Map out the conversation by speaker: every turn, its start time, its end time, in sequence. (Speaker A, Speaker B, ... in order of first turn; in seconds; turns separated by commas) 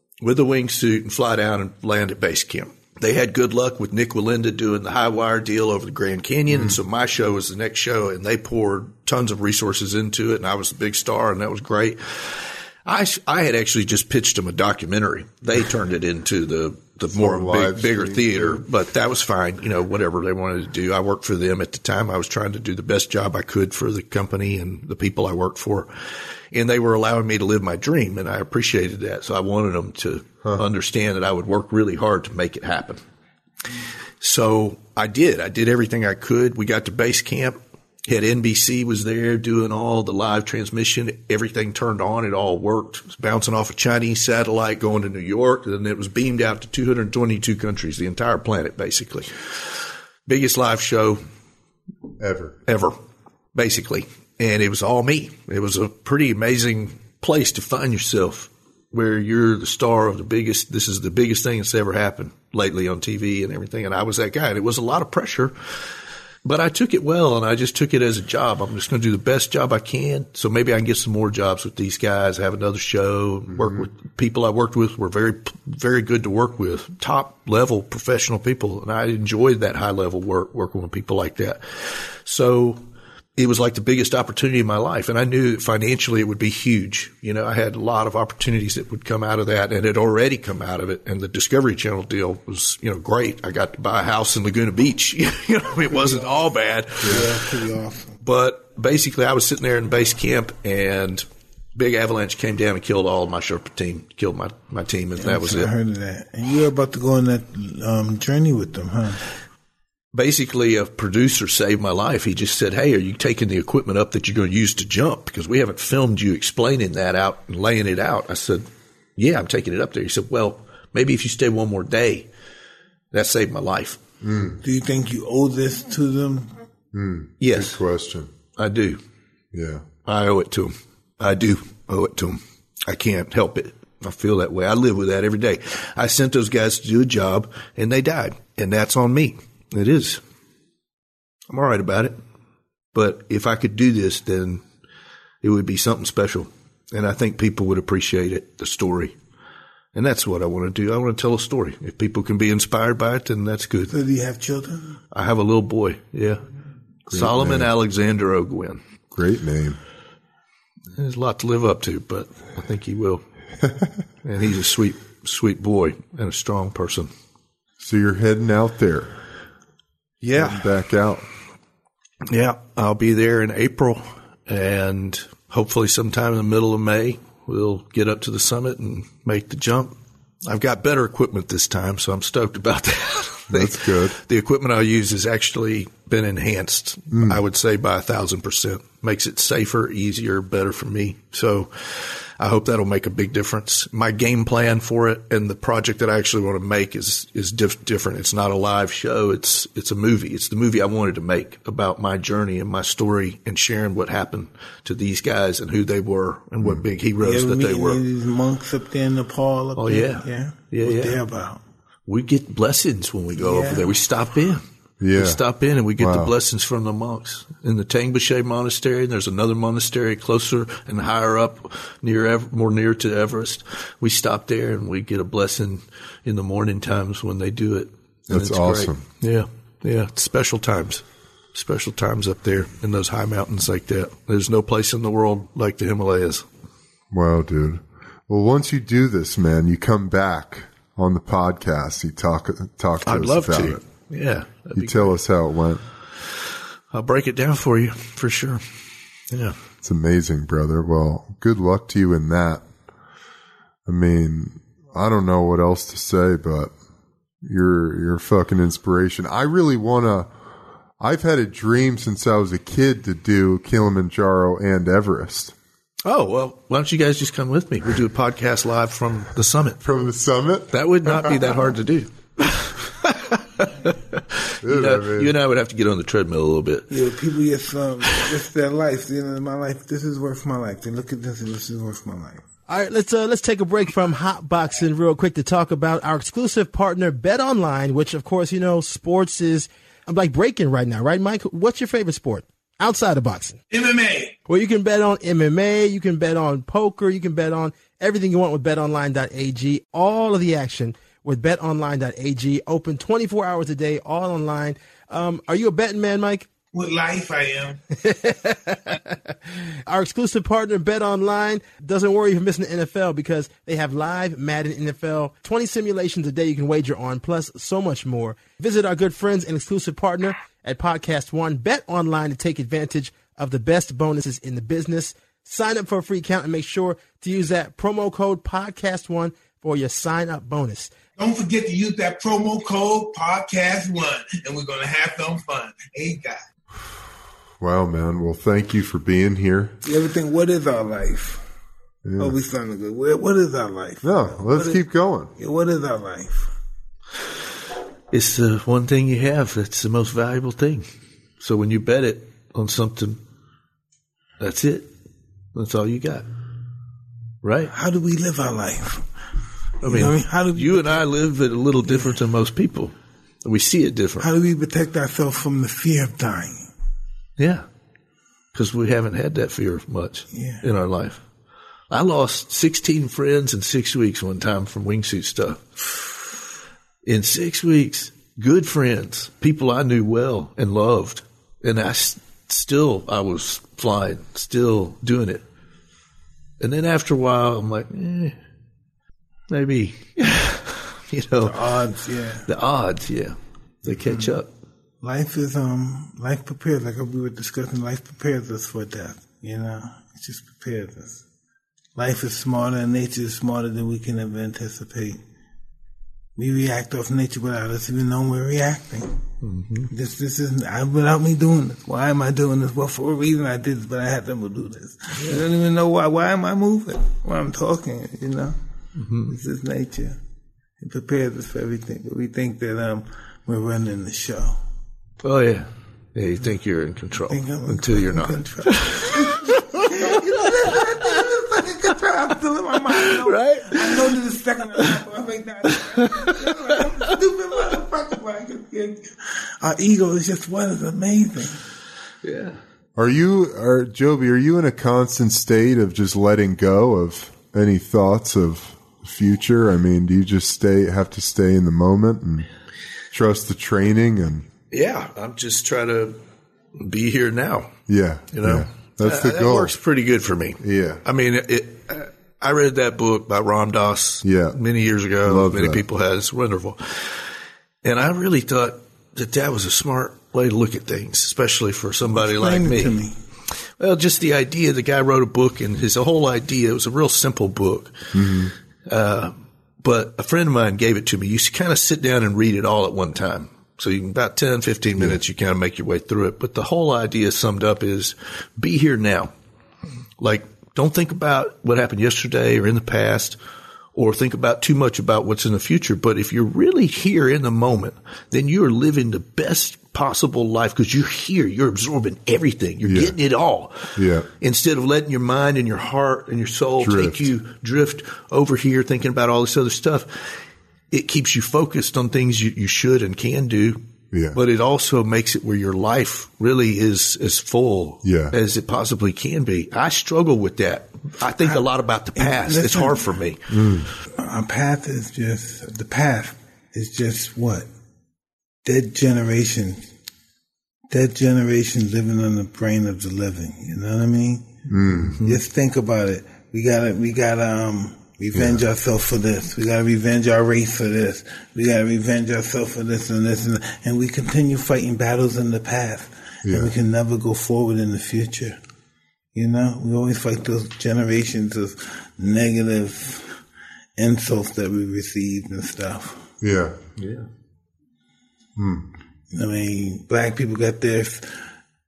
Speaker A: 0.2-33.0, Speaker B: 17.1-18.6, Speaker A: 34.2-49.8, Speaker A: 50.3-51.2, Speaker B: 52.2-52.6, Speaker A: 52.7-53.0, Speaker A: 53.5-65.5, Speaker A: 66.4-82.8, Speaker B: 73.5-73.8, Speaker A: 83.4-97.5, Speaker C: 97.0-98.2, Speaker A: 98.2-105.7, Speaker C: 105.2-109.2, Speaker A: 110.1-118.7, Speaker A: 119.2-122.3, Speaker A: 123.1-124.0, Speaker B: 124.2-124.6, Speaker C: 124.6-126.5, Speaker B: 126.9-128.3, Speaker A: 127.4-127.8, Speaker A: 128.6-129.0, Speaker B: 129.5-129.8, Speaker A: 130.1-140.2, Speaker A: 141.5-142.2, Speaker A: 142.9-144.6, Speaker A: 145.4-149.2, Speaker A: 149.9-153.9, Speaker C: 153.9-155.0, Speaker A: 155.1-156.4, Speaker A: 157.1-158.8, Speaker B: 157.1-157.7, Speaker B: 159.1-159.8, Speaker A: 160.9-163.2, Speaker B: 163.6-163.9, Speaker A: 164.2-167.1, Speaker B: 167.8-169.1, Speaker A: 170.2-170.7, Speaker B: 170.3-171.3, Speaker A: 172.3-208.0, Speaker B: 183.5-184.2, Speaker B: 187.1-187.4, Speaker C: 207.2-211.6, Speaker A: 209.8-211.2, Speaker A: 212.1-236.5, Speaker C: 213.4-213.9, Speaker B: 215.0-215.4, Speaker B: 216.0-216.3, Speaker B: 228.3-229.0, Speaker B: 237.1-243.8, Speaker A: 243.0-245.2, Speaker B: 244.7-245.8, Speaker A: 246.9-248.6, Speaker A: 249.3-249.6, Speaker B: 249.8-252.7, Speaker B: 253.9-256.7, Speaker B: 257.4-260.3, Speaker B: 261.0-265.5, Speaker A: 266.1-269.8, Speaker B: 269.8-271.4, Speaker A: 270.7-276.9, Speaker B: 274.6-275.3, Speaker C: 276.9-282.4, Speaker D: 282.7-293.6, Speaker C: 293.7-294.4, Speaker D: 294.5-306.5, Speaker C: 306.7-307.8, Speaker D: 308.0-309.4, Speaker D: 309.9-330.9, Speaker C: 331.2-336.4, Speaker B: 337.6-339.7, Speaker C: 339.8-341.4, Speaker B: 342.1-342.4, Speaker C: 342.2-344.8, Speaker B: 344.0-345.3, Speaker C: 345.4-346.5, Speaker A: 348.1-350.9, Speaker A: 351.4-353.2, Speaker A: 354.4-354.9, Speaker A: 355.5-356.3, Speaker A: 357.4-357.7, Speaker C: 357.7-359.1, Speaker A: 359.8-364.3, Speaker C: 359.8-361.1, Speaker C: 364.2-366.7, Speaker A: 367.4-367.7, Speaker A: 368.5-371.2, Speaker C: 370.3-370.6, Speaker A: 371.9-376.3, Speaker A: 377.1-385.4, Speaker A: 386.6-388.4, Speaker A: 389.5-391.6, Speaker C: 391.4-392.5, Speaker A: 392.5-394.5, Speaker C: 395.0-401.2, Speaker C: 402.0-405.2, Speaker C: 406.4-409.2, Speaker A: 409.4-409.9, Speaker C: 409.9-418.6, Speaker A: 415.2-415.4, Speaker A: 419.0-419.4, Speaker C: 419.3-420.2, Speaker C: 420.8-424.6, Speaker A: 425.2-431.6, Speaker C: 427.3-441.6, Speaker A: 432.9-434.1, Speaker A: 435.7-437.1, Speaker A: 442.2-442.6, Speaker B: 443.0-452.5, Speaker B: 453.1-454.5, Speaker A: 454.7-456.2, Speaker A: 456.8-457.8, Speaker B: 457.9-459.7, Speaker A: 458.3-467.2, Speaker B: 460.6-461.0, Speaker B: 464.2-464.6, Speaker B: 465.3-465.8, Speaker A: 467.8-473.0, Speaker C: 472.2-473.1, Speaker A: 473.6-478.1, Speaker B: 478.1-478.5, Speaker A: 478.9-489.3, Speaker A: 490.2-493.4, Speaker A: 493.9-510.4, Speaker B: 502.8-503.2, Speaker B: 504.0-504.3, Speaker B: 506.8-507.3, Speaker A: 510.9-513.8, Speaker B: 514.1-514.4, Speaker A: 514.3-523.4, Speaker B: 518.0-518.3, Speaker C: 522.2-523.1, Speaker B: 523.5-523.9, Speaker C: 524.2-527.7, Speaker C: 528.6-529.8, Speaker C: 530.9-548.6, Speaker B: 534.7-535.2, Speaker B: 538.3-538.6, Speaker B: 546.5-546.7, Speaker C: 549.4-553.3, Speaker C: 554.0-556.2, Speaker B: 556.4-556.8, Speaker A: 557.0-557.3, Speaker B: 558.6-558.9, Speaker C: 559.3-561.4